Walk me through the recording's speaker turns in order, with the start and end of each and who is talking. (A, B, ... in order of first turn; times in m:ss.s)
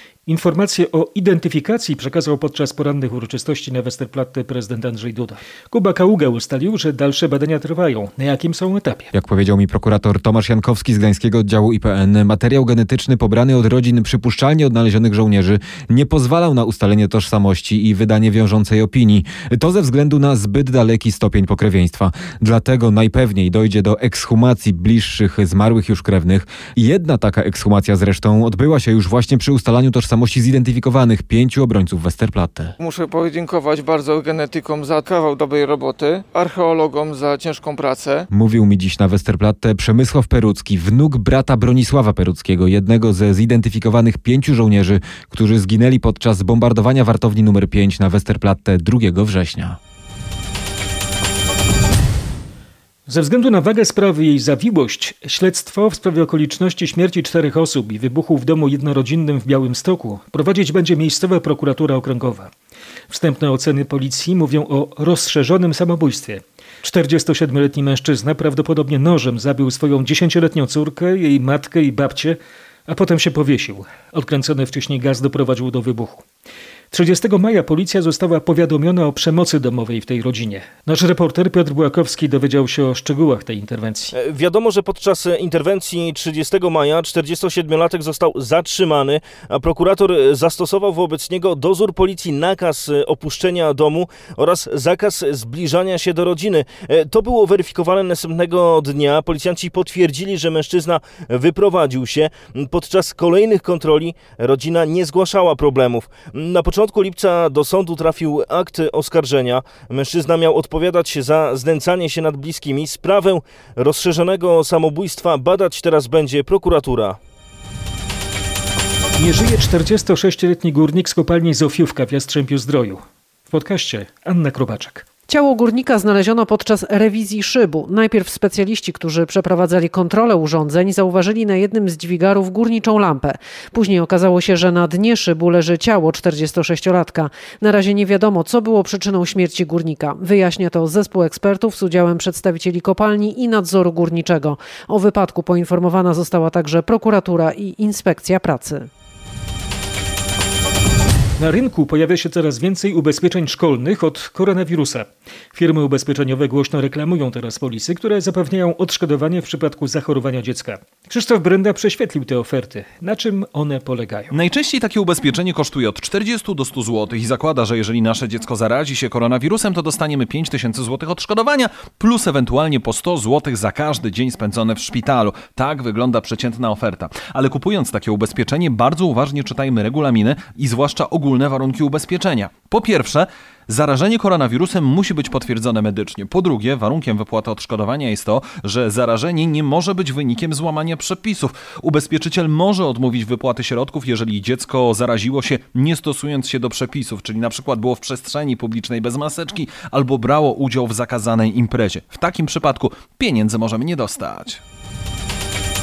0:00.3-0:09.1 A
0:09.1-0:32.7 B
0:32.8-0:38.2 C
0:38.3-0:49.8 B
0:53.1-1:02.5 A
1:03.1-1:16.2 A
1:16.9-1:24.1 A
1:24.1-1:57.2 D
1:59.2-2:05.0 A
2:05.3-2:28.9 E
2:31.4-2:44.3 A
2:44.3-3:24.6 F